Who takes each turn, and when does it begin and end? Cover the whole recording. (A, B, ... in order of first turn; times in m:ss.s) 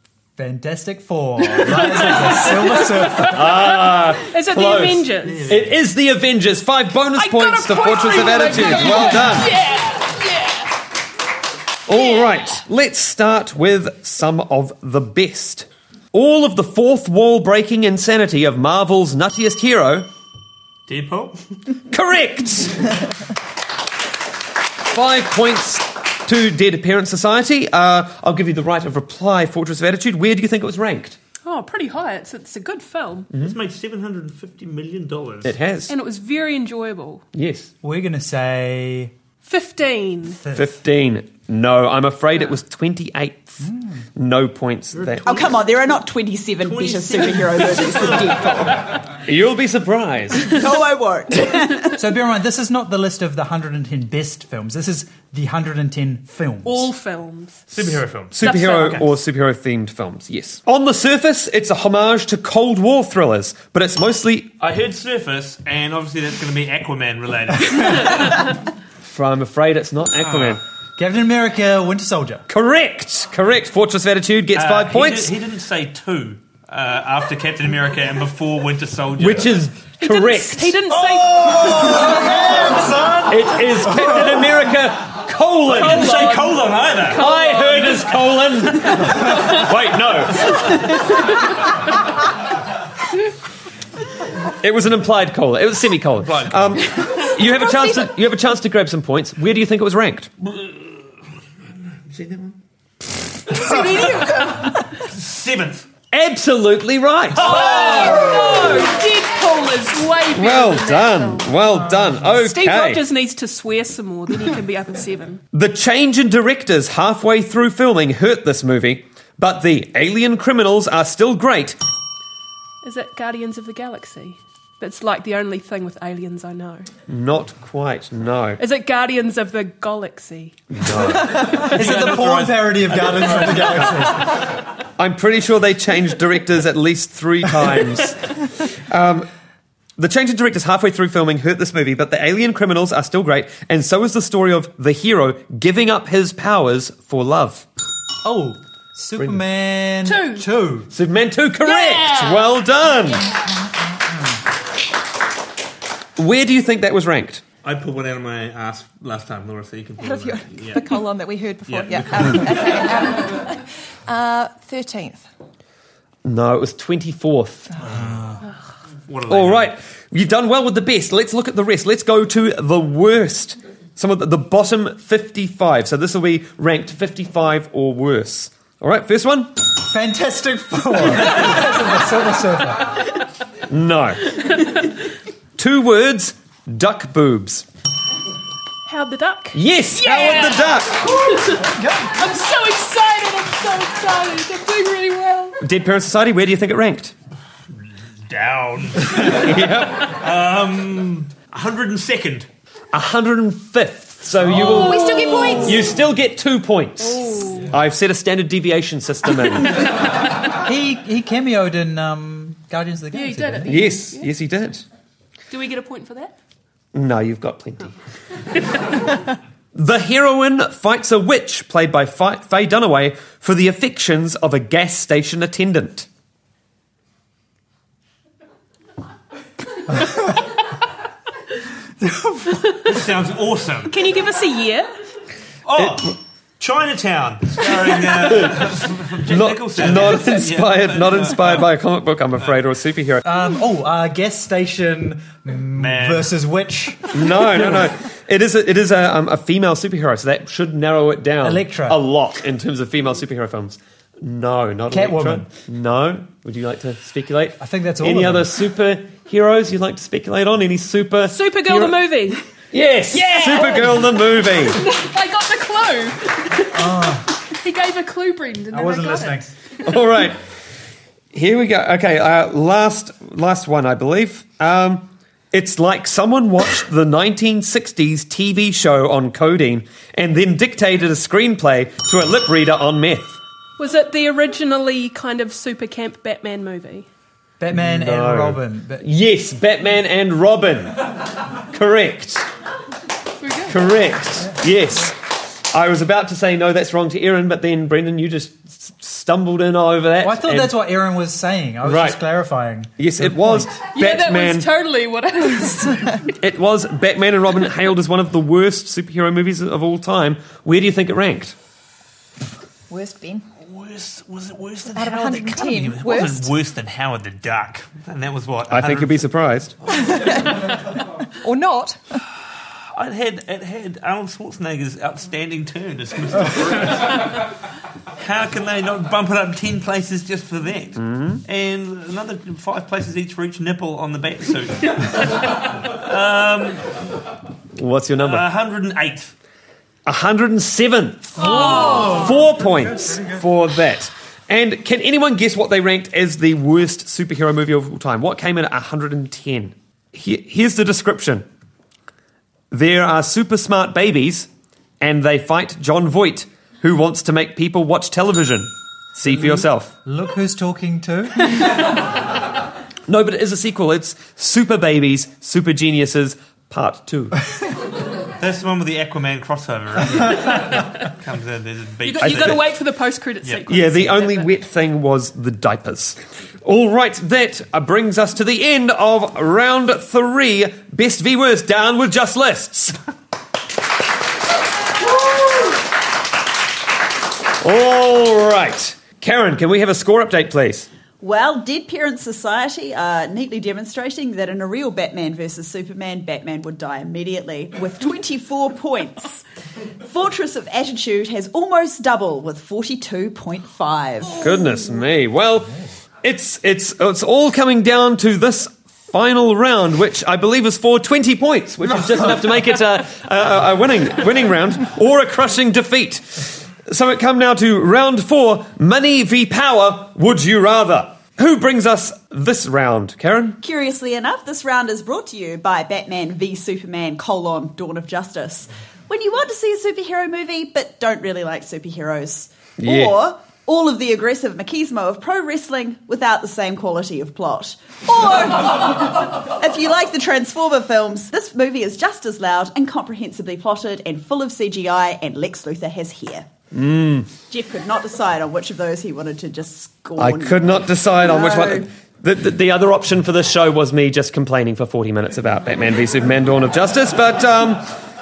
0:00.4-0:03.5 A
0:01.6-0:05.6 B
0:03.2-0:09.5 C
0:05.2-0:05.8 D
0:07.2-0:10.8 B
0:11.9-0:20.1 C
0:11.9-0:12.6 B
0:20.9-0:21.4 D
0:21.9-0:22.9 C
0:24.8-0:31.2 C
0:31.4-0:33.3 B
0:33.3-0:35.5 D
0:35.4-0:35.9 C
0:35.9-0:37.2 B
0:37.3-0:37.7 C
0:37.8-0:39.1 A
0:39.4-0:40.4 B
0:40.4-0:40.7 A
0:40.5-0:43.6 C
0:43.6-0:44.0 A
0:44.2-0:45.2 C
0:44.9-0:45.8 D
0:45.2-0:48.9 E
0:46.6-0:48.8 D
0:49.2-0:50.6 C
0:50.4-0:52.0 E
0:52.0-0:56.9 A
0:56.6-0:57.7 B
0:57.7-0:59.0 D
0:58.3-1:04.5 C
0:58.4-0:59.0 B
1:04.6-1:08.4 D
1:09.0-1:10.6 C
1:11.0-1:12.5 A
1:12.5-1:15.3 C
1:14.5-1:19.6 D
1:19.2-1:20.8 C
1:20.0-1:22.3 B
1:21.0-1:24.2 A
1:21.1-1:22.5 D
1:23.3-1:26.3 C
1:25.7-1:27.7 D
1:27.0-1:31.0 C
1:27.3-1:28.0 B
1:34.6-1:40.3 C
1:36.2-1:36.8 D
1:40.4-1:41.0 D
1:41.8-1:42.6 D
1:43.5-1:45.9 D
1:43.5-1:44.8 B
1:43.6-1:43.9 F
1:46.1-1:48.6 C
1:47.4-1:51.6 B
1:47.4-1:48.6 D
1:50.3-1:53.0 C
1:52.2-1:55.4 B
1:55.5-2:01.8 C
2:02.8-2:06.9 B
2:07.1-2:08.6 C
2:08.6-2:10.6 B
2:10.7-2:11.8 C
2:11.5-2:13.7 D
2:11.7-2:14.3 A
2:15.0-2:19.3 C
2:20.0-2:27.7 C
2:28.2-2:30.9 A
2:30.0-2:30.5 B
2:30.9-2:33.3 C
2:31.6-2:32.6 B
2:36.2-2:37.4 C
2:37.6-2:41.0 D
2:40.0-2:45.2 F
2:41.6-2:43.0 D
2:46.2-2:47.7 C
2:47.9-2:48.2 D
2:49.1-2:49.7 D
2:49.3-2:59.5 C
2:59.8-3:03.0 A
3:03.7-3:04.4 C
3:05.6-3:07.6 C
3:08.8-3:15.6 B
3:09.5-3:11.4 C
3:11.6-3:12.2 A
3:15.6-3:17.1 C
3:18.2-3:22.5 D
3:19.1-3:20.1 C
3:22.9-3:29.8 C
3:24.5-3:25.9 B
3:24.9-3:25.8 F
3:27.0-3:27.7 B
3:30.5-3:33.8 A
3:33.1-3:34.3 B
3:33.6-3:34.8 C
3:35.5-3:36.3 B
3:36.9-3:37.9 C
3:39.7-3:46.1 C
3:52.0-3:52.5 A
3:52.8-3:54.0 D
3:53.9-3:54.9 B
3:55.6-4:01.7 D
3:58.3-4:03.2 C
4:03.2-4:07.8 A
4:05.7-4:06.3 D
4:07.1-4:22.0 C
4:11.4-4:12.0 A
4:14.9-4:15.5 A
4:17.6-4:18.5 A
4:21.3-4:22.4 B
4:22.7-4:24.9 C
4:23.1-4:29.4 B
4:26.7-4:27.3 A
4:28.7-4:29.5 A
4:29.8-4:30.4 C
4:31.3-4:43.4 C
4:43.8-4:47.1 B
4:47.6-4:49.1 A
4:47.7-4:52.5 C
4:53.4-4:53.8 B
4:53.7-5:00.8 C
5:00.2-5:03.7 A
5:01.8-5:02.2 C
5:03.0-5:04.7 C
5:03.9-5:06.2 B
5:06.4-5:11.6 C
5:12.9-5:13.4 F
5:13.6-5:19.2 D
5:14.9-5:16.5 F
5:18.7-5:19.7 C
5:19.9-5:20.8 F
5:21.4-5:22.0 F
5:22.9-5:27.4 D
5:28.2-5:36.8 D
5:31.0-5:31.4 C
5:37.8-5:38.4 C
5:38.2-5:39.3 D
5:40.0-5:51.5 C
5:41.8-5:42.3 A
5:52.7-5:54.5 C
5:55.0-5:59.9 C
6:00.0-6:01.6 A
6:03.1-6:07.4 C
6:08.4-6:12.6 D
6:12.0-6:14.5 B
6:12.2-6:12.6 C
6:13.7-6:23.0 C
6:27.6-6:30.9 C
6:31.2-6:39.4 E
6:40.0-6:44.4 E
6:44.4-7:03.6 C
7:03.6-7:26.5 E
7:12.8-7:13.2 C
7:26.7-7:27.3 C
7:27.5-7:31.9 E
7:30.2-7:37.9 C